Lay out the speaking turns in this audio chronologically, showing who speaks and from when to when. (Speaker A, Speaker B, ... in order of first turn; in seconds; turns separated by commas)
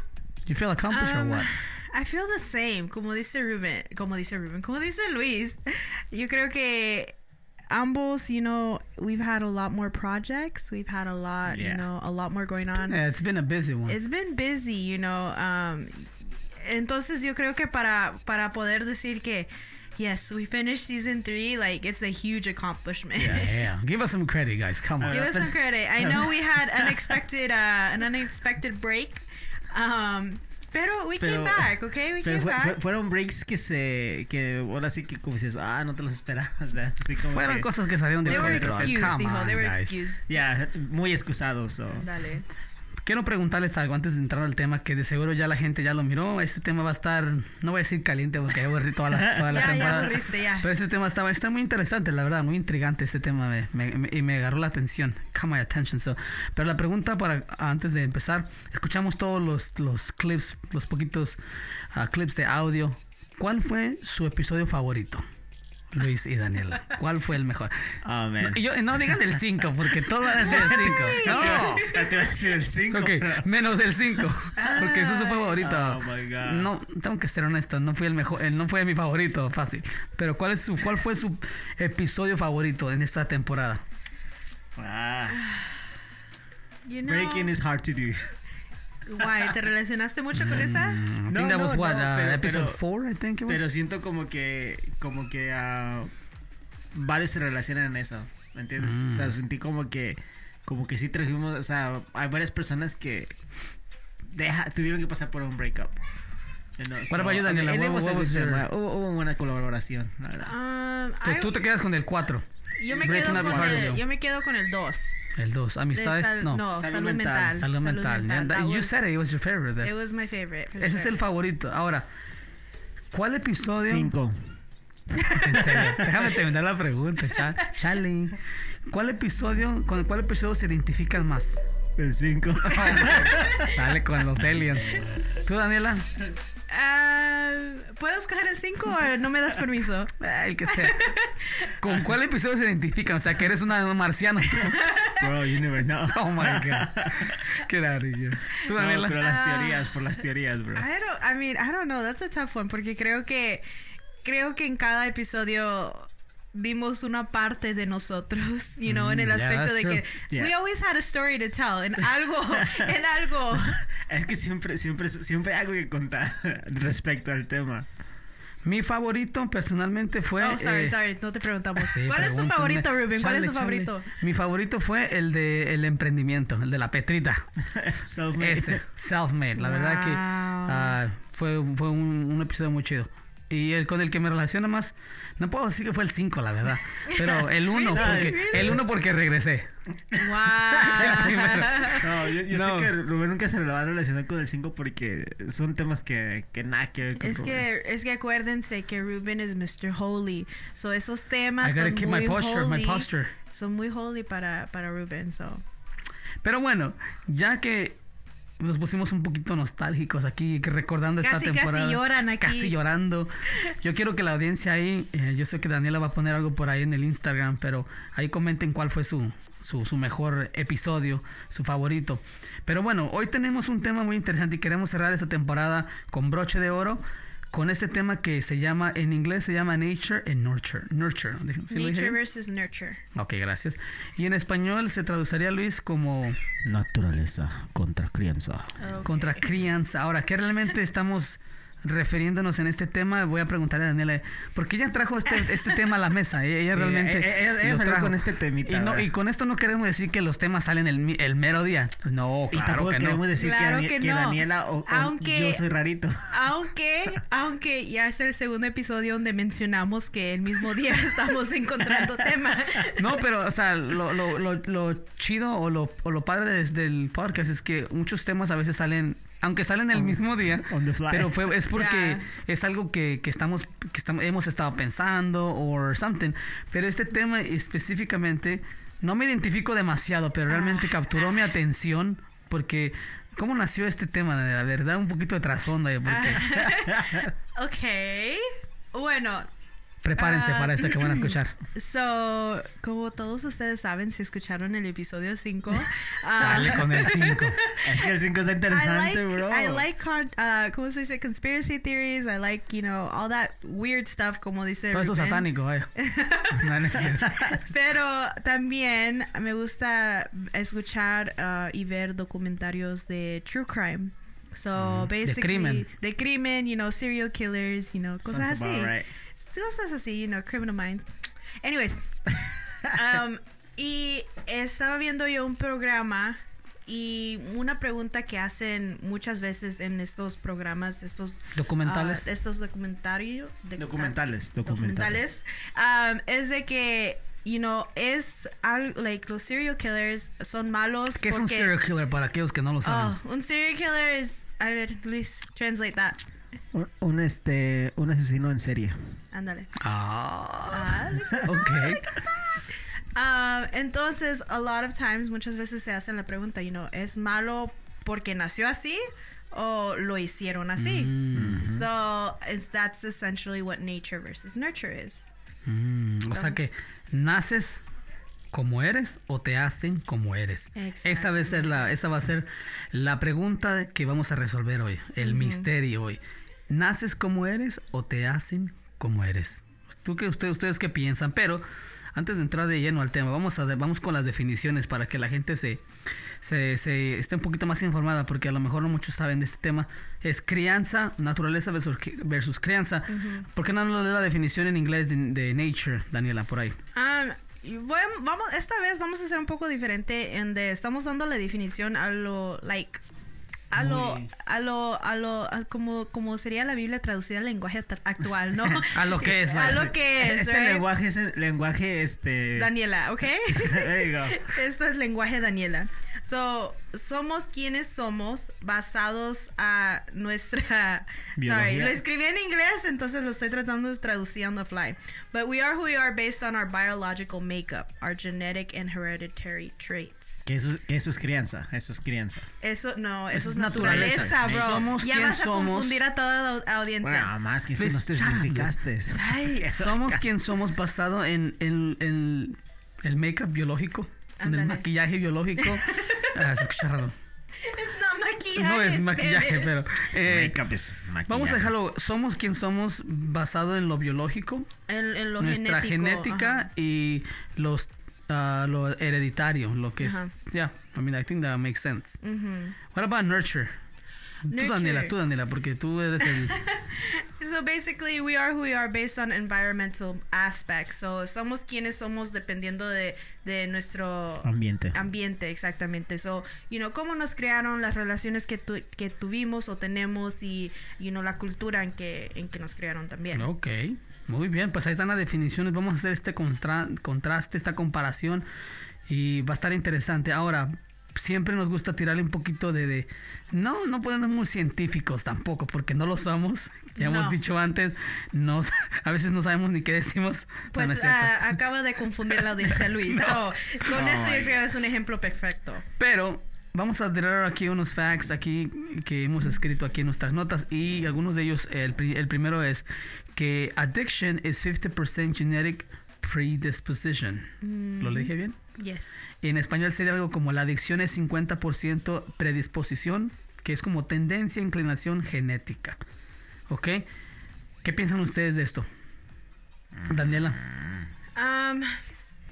Speaker A: 0.5-1.5, Speaker B: 0.9-7.2, Speaker B: 7.7-13.0, Speaker C: 11.5-11.8, Speaker A: 12.9-14.0, Speaker B: 13.9-23.5, Speaker C: 23.2-23.4, Speaker A: 23.3-25.3, Speaker C: 25.0-27.2, Speaker B: 25.1-32.8, Speaker C: 31.2-37.7, Speaker A: 37.3-40.0, Speaker C: 38.2-39.2, Speaker B: 38.2-40.2, Speaker C: 40.3-42.1, Speaker B: 42.0-42.5, Speaker A: 43.0-61.4, Speaker C: 49.1-49.7, Speaker B: 49.5-50.7, Speaker A: 61.9-65.2, Speaker A: 65.9-67.7, Speaker C: 68.0-68.6, Speaker A: 68.4-72.0, Speaker C: 70.2-73.5, Speaker B: 70.4-72.1, Speaker A: 72.9-83.8, Speaker B: 74.6-75.6, Speaker C: 75.6-76.7, Speaker C: 84.8-85.5, Speaker B: 86.9-87.5, Speaker C: 87.0-88.3, Speaker B: 89.1-91.0, Speaker A: 90.4-93.7, Speaker C: 91.3-92.8, Speaker C: 93.5-96.1, Speaker C: 96.9-103.3, Speaker A: 98.8-99.3, Speaker C: 104.2-106.0, Speaker C: 106.8-110.5, Speaker A: 107.1-108.7, Speaker B: 110.5-111.6, Speaker A: 111.2-112.5, Speaker B: 112.8-115.1, Speaker C: 112.9-114.0, Speaker A: 113.0-114.0, Speaker A: 115.4-116.6, Speaker B: 115.9-119.0, Speaker C: 116.8-117.6, Speaker A: 117.5-119.9, Speaker B: 119.8-121.1, Speaker A: 120.8-122.1, Speaker A: 123.1-124.1, Speaker C: 123.8-124.4, Speaker A: 125.3-131.6, Speaker C: 125.4-126.3, Speaker C: 132.0-133.7, Speaker A: 132.8-136.1, Speaker B: 136.7-140.1, Speaker A: 140.2-141.1, Speaker B: 140.7-141.7, Speaker A: 141.8-144.8, Speaker B: 144.6-145.2, Speaker C: 145.1-147.3, Speaker A: 146.1-149.2, Speaker C: 148.7-150.9, Speaker B: 149.2-149.9, Speaker B: 150.8-153.7, Speaker B: 154.2-163.8, Speaker A: 158.9-160.0, Speaker C: 162.5-162.9, Speaker C: 163.6-167.9, Speaker A: 168.6-171.0, Speaker B: 170.4-174.1, Speaker A: 171.8-177.4, Speaker C: 177.7-178.8, Speaker A: 178.4-189.7, Speaker B: 179.6-180.9, Speaker B: 187.1-188.8, Speaker C: 187.9-188.8, Speaker C: 190.1-191.1, Speaker B: 190.2-192.1, Speaker A: 190.7-192.9, Speaker C: 191.9-197.7, Speaker B: 197.2-205.6, Speaker A: 201.6-203.3, Speaker A: 206.4-208.0, Speaker A: 208.6-232.2, Speaker B: 211.2-212.7, Speaker B: 231.7-233.0, Speaker A: 233.2-236.4, Speaker C: 236.6-238.8, Speaker B: 238.8-239.5, Speaker A: 239.1-253.2, Speaker C: 246.7-249.1, Speaker C: 252.5-256.3, Speaker B: 253.3-255.6, Speaker B: 256.3-263.2, Speaker A: 262.9-286.7, Speaker C: 269.9-271.5, Speaker B: 271.7-272.3, Speaker B: 280.5-281.4, Speaker B: 286.1-289.5, Speaker A: 290.0-291.5, Speaker B: 290.2-298.1, Speaker A: 296.4-297.6, Speaker C: 296.4-296.9, Speaker C: 297.8-299.9, Speaker B: 298.7-321.1, Speaker A: 304.9-305.9, Speaker A: 306.5-307.3, Speaker C: 306.8-307.6, Speaker A: 314.8-315.9, Speaker C: 318.2-319.1, Speaker B: 321.6-322.0, Speaker B: 322.8-341.7, Speaker A: 331.6-332.3, Speaker C: 333.8-335.3, Speaker A: 341.2-343.2, Speaker B: 342.8-346.2, Speaker C: 346.7-349.0, Speaker B: 349.3-349.7, Speaker A: 349.8-352.0, Speaker B: 350.7-352.2, Speaker B: 353.1-365.2, Speaker A: 360.8-361.7, Speaker C: 361.3-361.9, Speaker A: 365.7-367.8, Speaker B: 366.3-366.6, Speaker A: 368.5-385.8, Speaker B: 370.8-371.8, Speaker B: 375.2-375.7, Speaker A: 386.4-396.8, Speaker B: 393.1-393.5, Speaker B: 396.9-403.0, Speaker B: 403.7-410.8, Speaker C: 403.8-404.3, Speaker A: 408.9-409.9, Speaker C: 409.5-412.7, Speaker B: 412.6-430.4, Speaker C: 413.5-414.5, Speaker C: 421.4-422.0, Speaker C: 430.5-432.5, Speaker B: 432.6-437.3, Speaker A: 433.3-436.0, Speaker C: 433.8-434.9, Speaker C: 437.0-440.2, Speaker A: 437.8-438.7, Speaker B: 439.1-439.7, Speaker A: 439.7-447.1, Speaker B: 444.4-444.8, Speaker B: 445.6-446.4, Speaker B: 447.6-449.7, Speaker A: 448.6-450.6, Speaker C: 450.2-451.7, Speaker A: 451.3-454.7, Speaker B: 454.9-456.7, Speaker A: 455.4-462.2, Speaker B: 460.0-460.3, Speaker B: 462.2-462.8, Speaker A: 462.9-463.7, Speaker A: 464.5-466.6, Speaker B: 464.5-465.1, Speaker B: 466.2-483.5, Speaker C: 474.4-475.0, Speaker A: 483.3-488.5, Speaker A: 489.1-501.6, Speaker B: 497.0-497.4, Speaker B: 500.7-505.9, Speaker A: 503.1-503.4, Speaker C: 503.9-504.6, Speaker A: 506.0-512.9, Speaker A: 513.4-518.6, Speaker B: 517.6-519.1, Speaker A: 519.4-526.0, Speaker A: 526.7-527.1, Speaker A: 527.8-528.9, Speaker C: 530.0-531.0, Speaker A: 530.1-530.6, Speaker B: 531.4-532.0